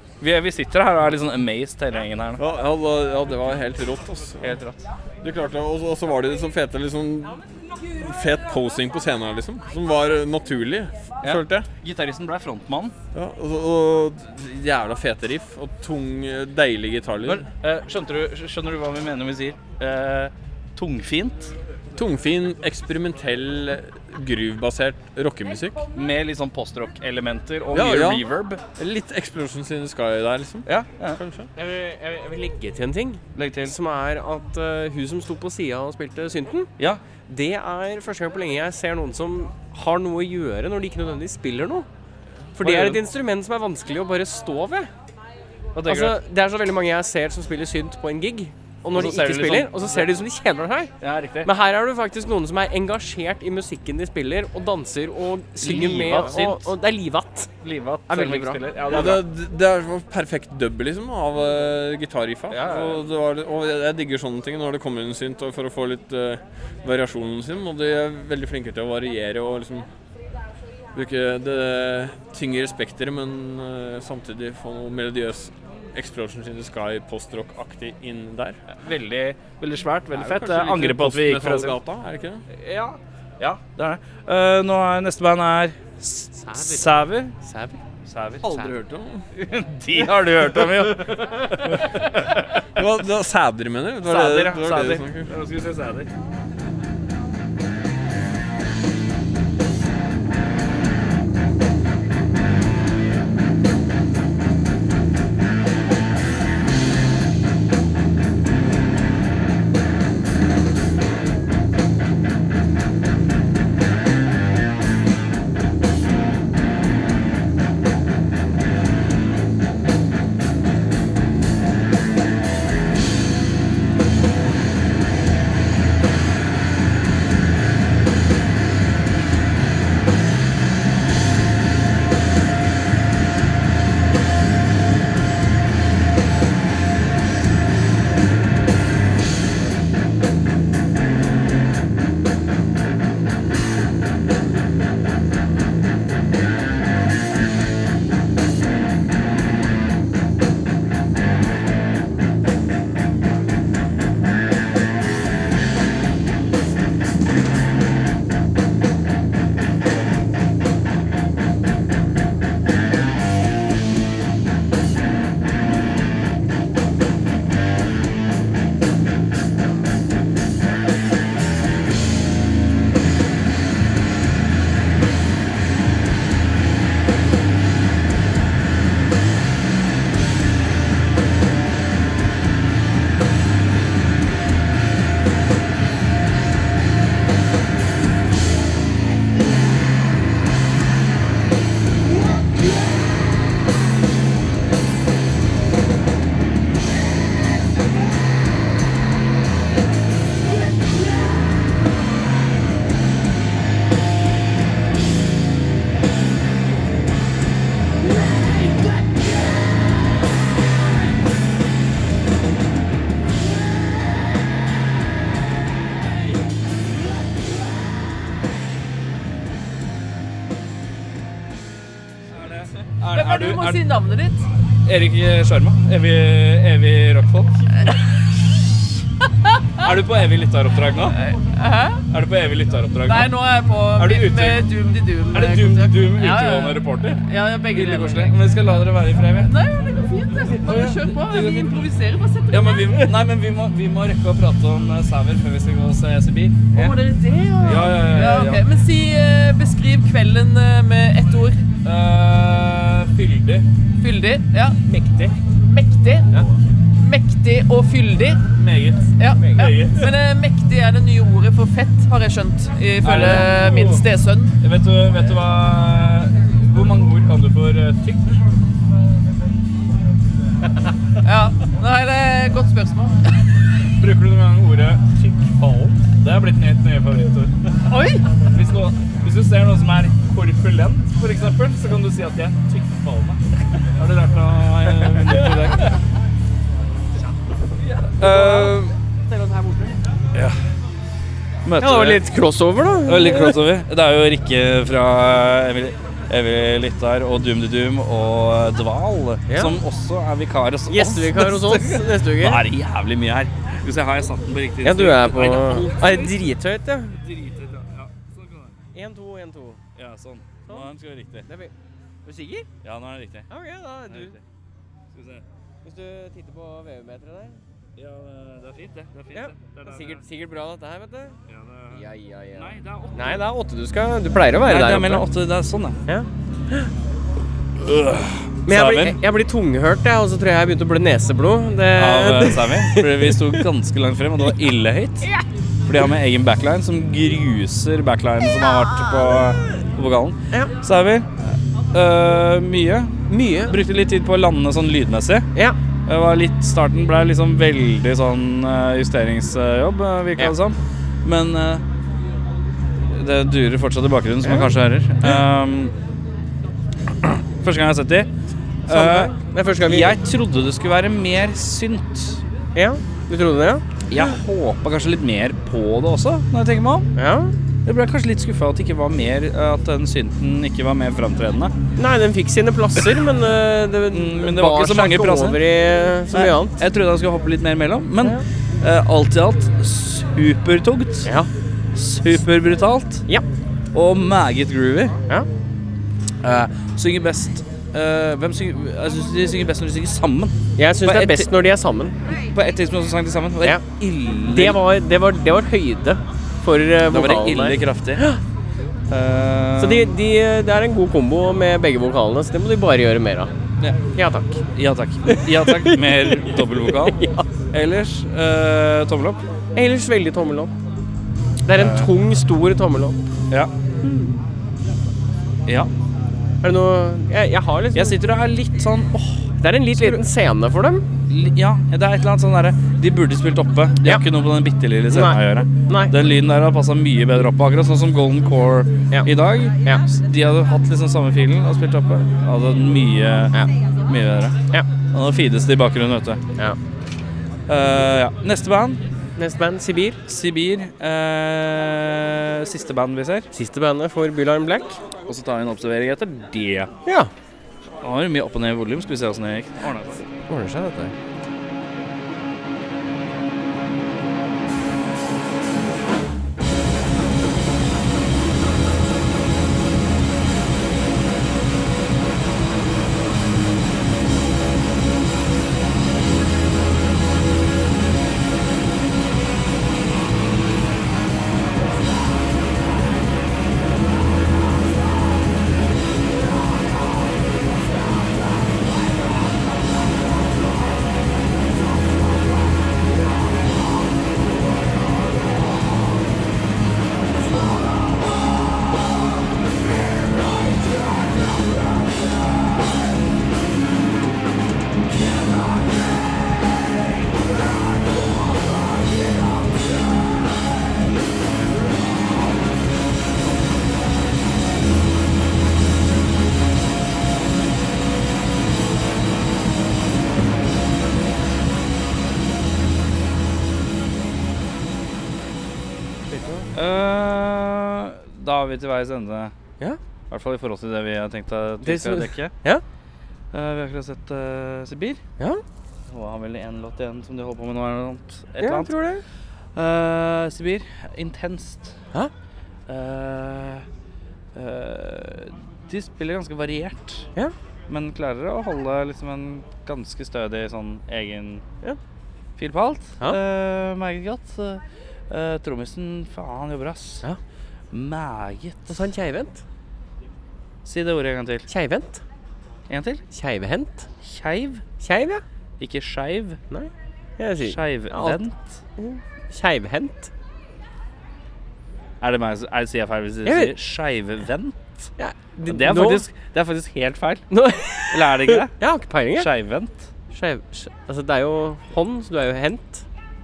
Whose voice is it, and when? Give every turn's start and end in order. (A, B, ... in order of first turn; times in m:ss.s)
0:00.2-0:02.4 A
0:02.4-0:04.6 B
0:04.4-0:04.8 A
0:05.2-0:11.7 B
0:11.2-0:12.9 A
0:13.1-0:17.5 B
0:17.2-0:21.5 A
0:22.0-0:25.8 B
0:26.0-0:28.6 A
0:27.7-0:31.5 B
0:30.7-0:31.2 A
0:31.6-0:36.7 C
0:33.4-0:33.8 A
0:37.3-0:41.9 C
0:42.6-0:44.9 C
0:42.6-0:43.0 A
0:45.8-0:46.2 A
0:45.9-0:57.5 C
0:48.9-0:50.1 A
0:51.0-0:51.5 A
0:55.6-0:56.7 A
0:57.6-0:59.3 A
0:58.1-0:58.7 C
0:58.9-1:09.9 B
1:02.5-1:03.0 A
1:10.9-1:18.6 B
1:18.7-1:21.8 A
1:20.1-1:22.4 B
1:22.5-1:27.4 A
1:26.4-1:27.8 C
1:28.1-1:28.7 A
1:28.5-1:28.7 C
1:28.5-1:29.2 B
1:29.4-1:32.5 A
1:32.8-1:35.3 B
1:34.0-1:36.1 A
3:42.4-3:43.8 A
3:43.1-3:44.5 D
3:44.8-3:47.7 A
3:49.8-3:51.2 A
3:51.1-3:52.0 D
3:52.1-3:53.3 A
3:53.0-3:58.4 D
3:54.0-3:54.6 A
3:55.3-3:59.5 A
3:59.3-4:03.2 D
4:00.6-4:01.8 A
4:02.5-4:07.0 A
4:06.7-4:11.6 D
4:07.6-4:08.6 A
4:11.8-4:13.7 A
4:14.0-4:14.8 D
4:14.9-4:15.4 C
4:15.6-4:16.4 D
4:17.0-4:18.4 D
4:18.6-4:20.1 A
4:19.2-4:24.5 D
4:23.0-4:24.0 A
4:24.6-4:28.3 A
4:31.2-4:33.3 D
4:34.0-4:37.6 A
4:37.9-4:38.2 D
4:38.5-4:43.4 A
4:44.0-4:45.9 A
4:48.0-4:49.0 A
4:48.2-4:48.7 C
4:49.3-4:49.9 C
4:51.6-4:52.2 A
4:51.8-4:53.7 C
4:53.1-5:06.4 A
4:59.5-4:59.7 C
5:00.9-5:02.6 C
5:04.8-5:07.2 C
5:07.2-5:08.8 A
5:08.9-5:09.8 C
5:10.0-5:11.5 A
5:11.5-5:11.7 C
5:12.2-5:12.7 C
5:12.8-5:13.5 A
5:13.5-5:14.4 C
5:14.1-5:14.4 A
5:15.1-5:15.4 A
5:15.8-5:17.6 C
5:18.0-5:20.2 A
5:19.3-5:21.4 C
5:21.5-5:22.0 A
5:21.9-5:25.3 C
5:22.6-5:23.4 A
5:24.6-5:26.0 A
5:26.1-5:26.9 C
5:27.8-5:29.2 A
5:28.7-5:33.6 C
5:32.0-5:35.3 A
5:35.9-5:45.5 A
5:43.3-5:43.7 C
5:46.1-5:51.8 A
5:53.1-5:55.9 A
5:54.4-5:54.7 C
5:57.2-5:58.3 A
5:58.9-6:02.4 A
5:58.9-6:00.2 C
6:02.8-6:04.4 C
6:04.1-6:07.1 A
6:07.2-6:07.5 C
6:07.9-6:11.8 A
6:12.0-6:16.8 C
6:14.1-6:15.6 A
6:16.3-6:21.3 A
6:22.0-6:23.2 A
6:23.9-6:25.2 A
6:26.4-6:31.5 A
6:30.8-6:32.2 C
6:32.4-6:34.8 A
6:34.5-6:38.4 C
6:37.1-6:38.2 A
6:39.1-6:40.1 A
6:39.8-6:43.5 C
6:44.2-6:44.6 C
6:44.8-6:49.4 A
6:45.3-6:47.4 C
6:49.8-6:50.7 C
6:51.7-6:53.2 C
6:51.8-6:52.1 A
6:54.0-6:54.4 C
6:56.6-6:58.2 C
6:58.0-7:00.2 A
6:59.6-7:01.0 C
7:01.3-7:14.6 A
7:05.1-7:06.1 C
7:15.1-7:16.4 A
7:17.7-7:19.0 A
7:19.4-7:20.2 C
7:20.3-7:23.5 A
7:23.5-7:25.0 C
7:25.3-7:26.9 A
7:27.1-7:27.3 C
7:28.0-7:30.2 A
7:30.5-7:31.1 C
8:36.3-8:36.7 C
8:36.8-8:39.5 A
8:40.3-8:42.5 A
8:41.8-8:42.8 C
8:43.5-8:45.2 A
8:46.1-8:48.9 A
8:48.6-8:49.2 C
8:49.8-8:52.0 A
8:52.9-8:53.9 A
8:54.6-8:57.3 A
8:57.9-9:01.6 A
9:02.6-9:07.2 A
9:07.9-9:09.1 A
9:08.9-9:09.6 C
9:10.8-9:11.7 A
9:11.7-9:12.2 C
9:12.9-9:13.2 A
9:13.3-9:14.1 C
9:14.2-9:14.8 A
9:15.0-9:15.4 C
9:15.8-9:16.6 A
9:16.7-9:18.4 C
9:17.6-9:18.7 A
9:19.0-9:20.3 C
9:22.2-9:25.1 A
9:23.4-9:23.7 C
9:25.2-9:26.2 C
9:25.7-9:27.5 A
9:27.5-9:29.5 C
9:28.1-9:28.7 A
9:29.4-9:30.0 A
9:30.3-9:33.0 C